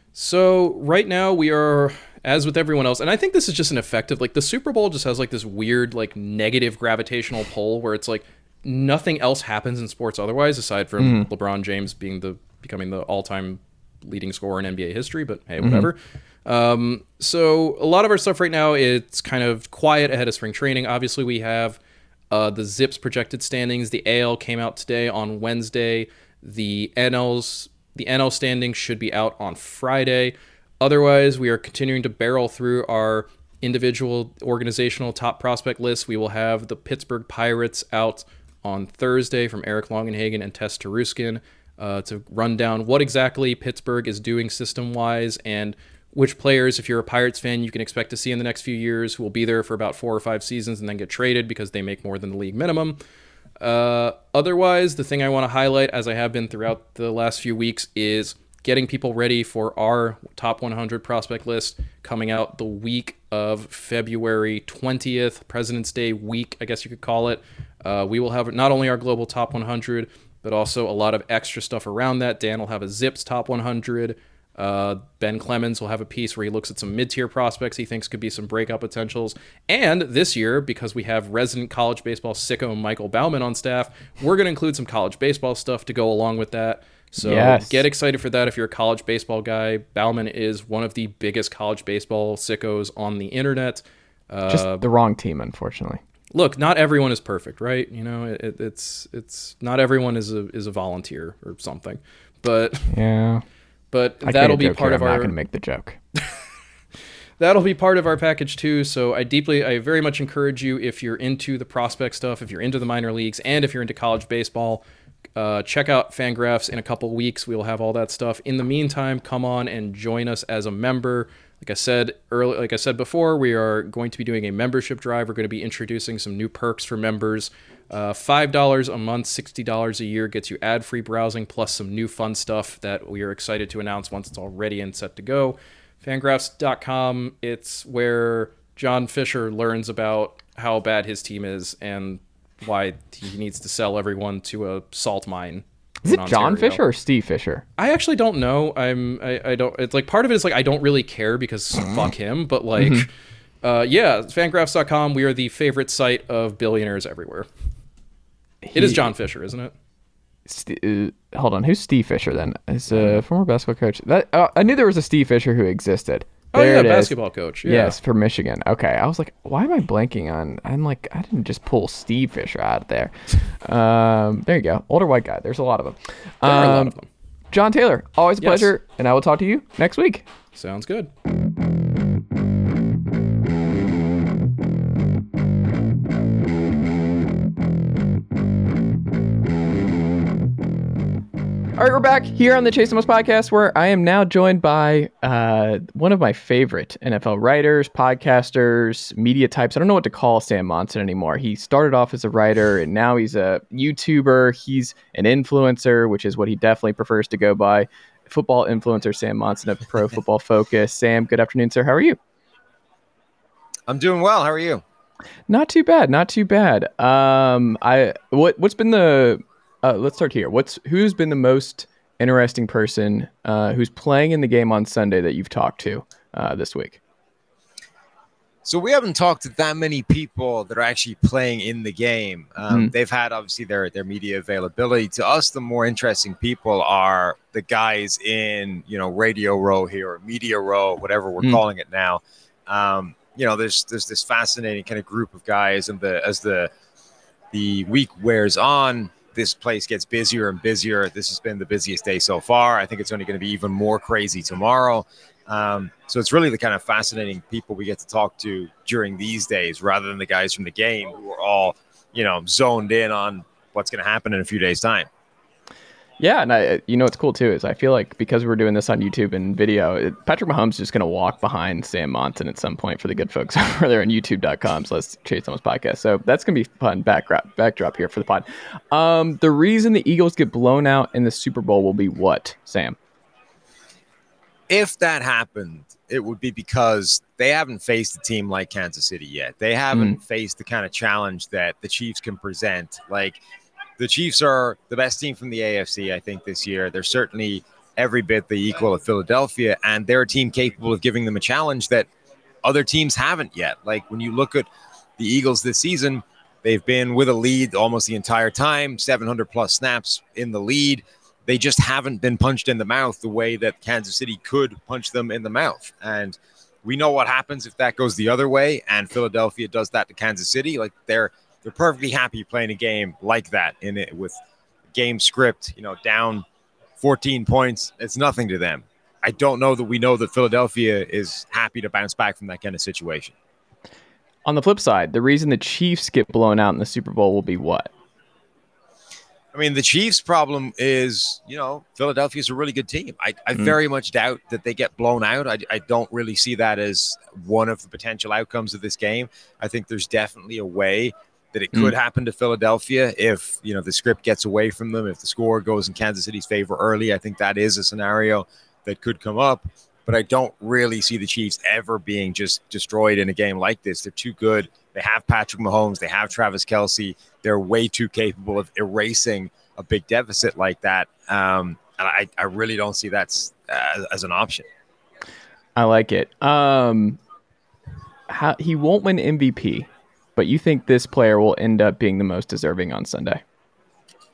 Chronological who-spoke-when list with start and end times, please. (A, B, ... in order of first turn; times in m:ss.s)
0:00.1-0:21.8 A
0:11.0-0:11.3 B
0:15.6-0:15.9 B
0:22.3-0:53.0 A
0:53.6-1:34.8 A
1:27.2-1:27.8 B
1:34.5-1:36.0 B
1:36.3-1:42.9 A
1:42.9-1:43.4 B
1:43.9-1:45.3 A
1:44.2-1:46.0 B
1:47.4-1:54.8 A
1:55.4-2:26.8 A
2:26.0-2:27.6 B
2:27.8-2:33.1 A
2:31.8-2:32.0 B
2:32.8-2:33.1 B
2:33.6-2:37.5 A
2:38.6-2:39.1 B
2:38.7-2:39.7 A
2:40.4-2:47.1 B
2:42.9-2:43.2 A
2:46.5-2:48.0 A
2:47.6-2:56.9 B
2:56.4-2:57.1 A
2:57.5-3:00.2 B
2:58.4-2:58.7 A
3:00.5-3:01.1 A
3:11.8-3:32.2 B
3:33.9-3:34.8 C
3:35.5-3:47.0 B
3:48.6-4:06.7 C
4:07.5-4:25.1 C
4:26.2-4:43.0 B
4:44.7-4:53.4 C
4:49.9-4:50.2 B
4:54.0-5:02.1 C
5:02.6-5:04.7 C
5:05.2-5:24.4 C
5:24.9-5:26.4 C
5:27.0-5:33.3 C
5:34.4-5:37.9 B
5:39.5-6:14.6 C
6:15.8-6:17.2 B
6:18.3-6:23.4 B